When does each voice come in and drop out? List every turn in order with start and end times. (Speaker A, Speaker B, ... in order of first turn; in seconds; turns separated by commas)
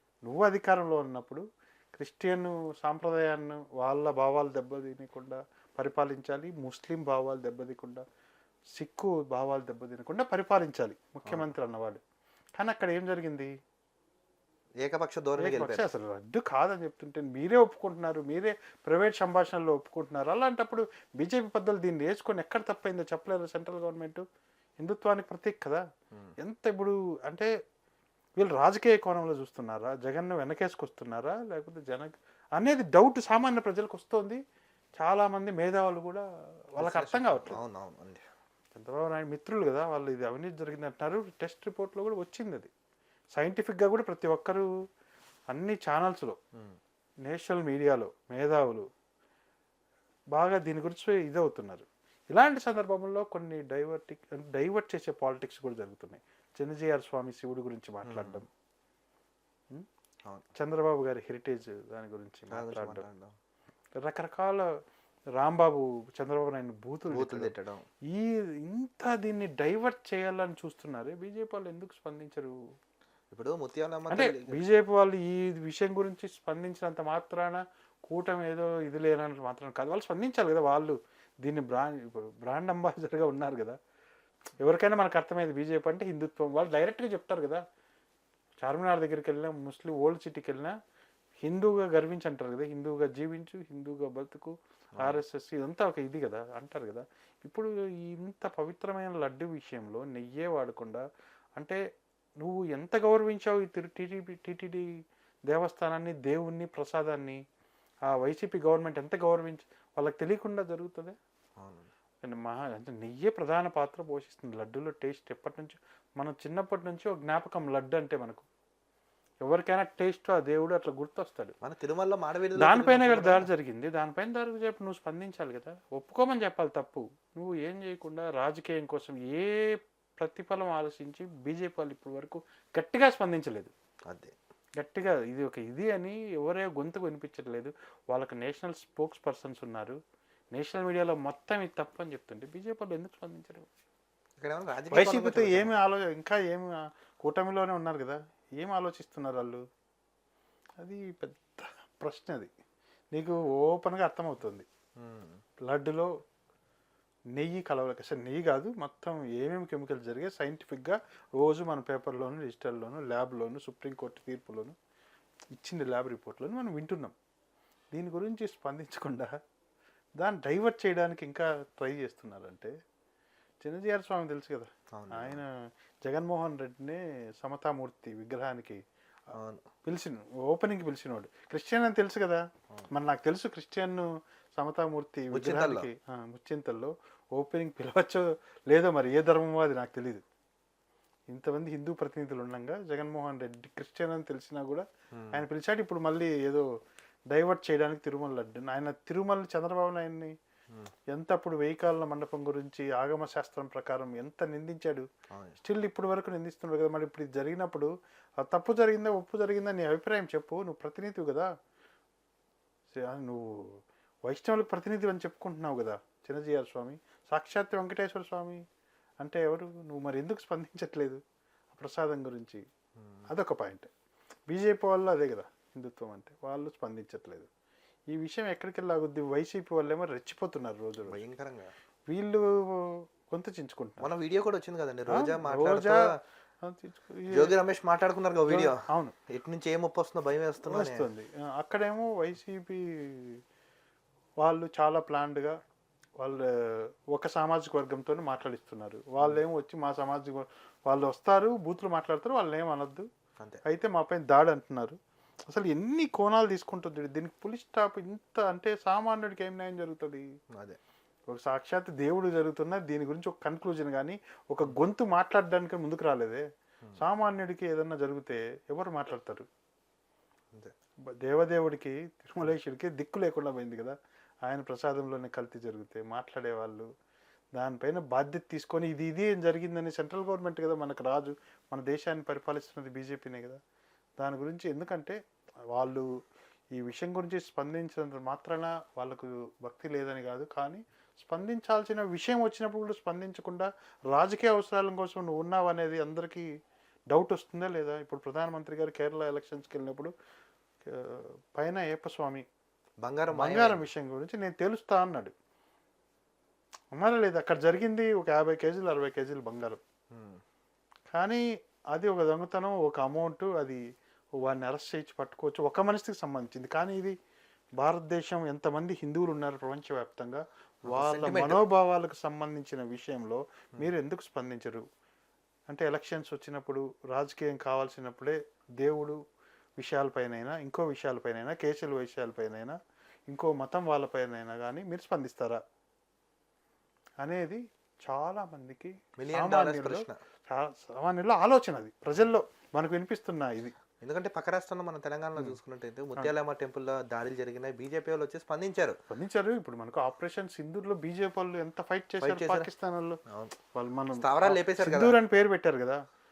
Speaker A: 0.3-1.4, Speaker A: 2.0-8.0, Speaker A: 8.8-12.0, Speaker A: 12.6-13.5, Speaker B: 14.8-15.9, Speaker A: 15.4-24.2, Speaker A: 24.8-25.8, Speaker A: 26.4-27.5, Speaker A: 28.4-34.4, Speaker A: 35.0-36.2, Speaker A: 36.8-37.6, Speaker B: 36.8-38.2, Speaker A: 38.7-42.7, Speaker A: 43.4-44.7, Speaker A: 45.5-46.4, Speaker A: 47.3-48.9, Speaker A: 50.3-58.5, Speaker B: 58.1-58.4, Speaker A: 60.6-63.0, Speaker B: 62.5-63.3, Speaker A: 64.0-64.7, Speaker A: 65.4-67.5, Speaker B: 67.1-67.8, Speaker A: 68.1-72.5, Speaker B: 73.3-74.6, Speaker A: 74.1-83.8, Speaker A: 84.6-87.6, Speaker A: 88.6-90.8, Speaker A: 91.4-101.0, Speaker B: 95.0-95.2, Speaker A: 102.4-104.9, Speaker A: 105.5-107.4, Speaker A: 108.1-111.2, Speaker B: 111.6-111.9, Speaker A: 112.2-118.5, Speaker A: 119.4-121.5, Speaker B: 121.6-123.5, Speaker A: 122.6-133.7, Speaker B: 134.1-134.3, Speaker A: 134.8-140.0, Speaker A: 140.5-143.7, Speaker B: 144.4-145.8, Speaker A: 144.9-149.6, Speaker A: 150.8-152.5, Speaker A: 153.1-154.7, Speaker B: 155.0-155.4, Speaker A: 155.7-156.1, Speaker A: 157.4-164.8, Speaker A: 165.6-167.2, Speaker A: 167.9-169.3, Speaker A: 170.2-172.7, Speaker A: 173.6-175.5, Speaker B: 174.9-175.4, Speaker A: 176.1-178.8, Speaker B: 179.4-179.6, Speaker A: 179.9-190.2, Speaker B: 185.3-185.9, Speaker A: 191.3-196.7, Speaker B: 195.1-195.4, Speaker A: 197.3-200.3, Speaker A: 201.1-205.1, Speaker B: 205.3-205.6, Speaker A: 205.6-211.5, Speaker A: 212.9-213.8, Speaker A: 214.3-218.6, Speaker A: 219.2-221.2, Speaker A: 221.7-222.6, Speaker A: 223.3-223.9, Speaker A: 224.5-227.5, Speaker A: 228.1-231.2, Speaker B: 231.1-231.7, Speaker A: 232.1-234.1, Speaker B: 234.0-236.2, Speaker A: 235.1-236.0, Speaker A: 236.6-237.6, Speaker B: 237.3-241.1, Speaker A: 238.5-239.1, Speaker A: 240.7-243.4, Speaker A: 244.4-245.6, Speaker A: 246.2-253.1, Speaker A: 253.7-255.0, Speaker A: 255.5-260.2, Speaker A: 261.3-266.4, Speaker A: 267.0-269.5, Speaker A: 271.1-273.9, Speaker A: 274.5-276.9, Speaker A: 277.6-283.6, Speaker A: 284.2-285.2, Speaker A: 285.7-286.1, Speaker A: 286.8-296.5, Speaker A: 297.1-300.1, Speaker A: 300.9-302.5, Speaker B: 303.0-303.9, Speaker A: 303.3-305.3, Speaker A: 306.9-309.8, Speaker B: 310.1-310.4, Speaker A: 311.1-311.4, Speaker A: 311.9-313.8, Speaker A: 314.4-317.1, Speaker A: 317.8-324.8, Speaker B: 320.9-321.6, Speaker A: 325.7-329.2, Speaker A: 329.8-332.8, Speaker A: 333.3-335.6, Speaker A: 337.2-343.7, Speaker B: 339.2-340.1, Speaker B: 344.0-349.0, Speaker A: 349.1-353.2, Speaker B: 352.2-352.7, Speaker B: 353.3-353.6, Speaker A: 353.7-356.0, Speaker B: 354.2-355.2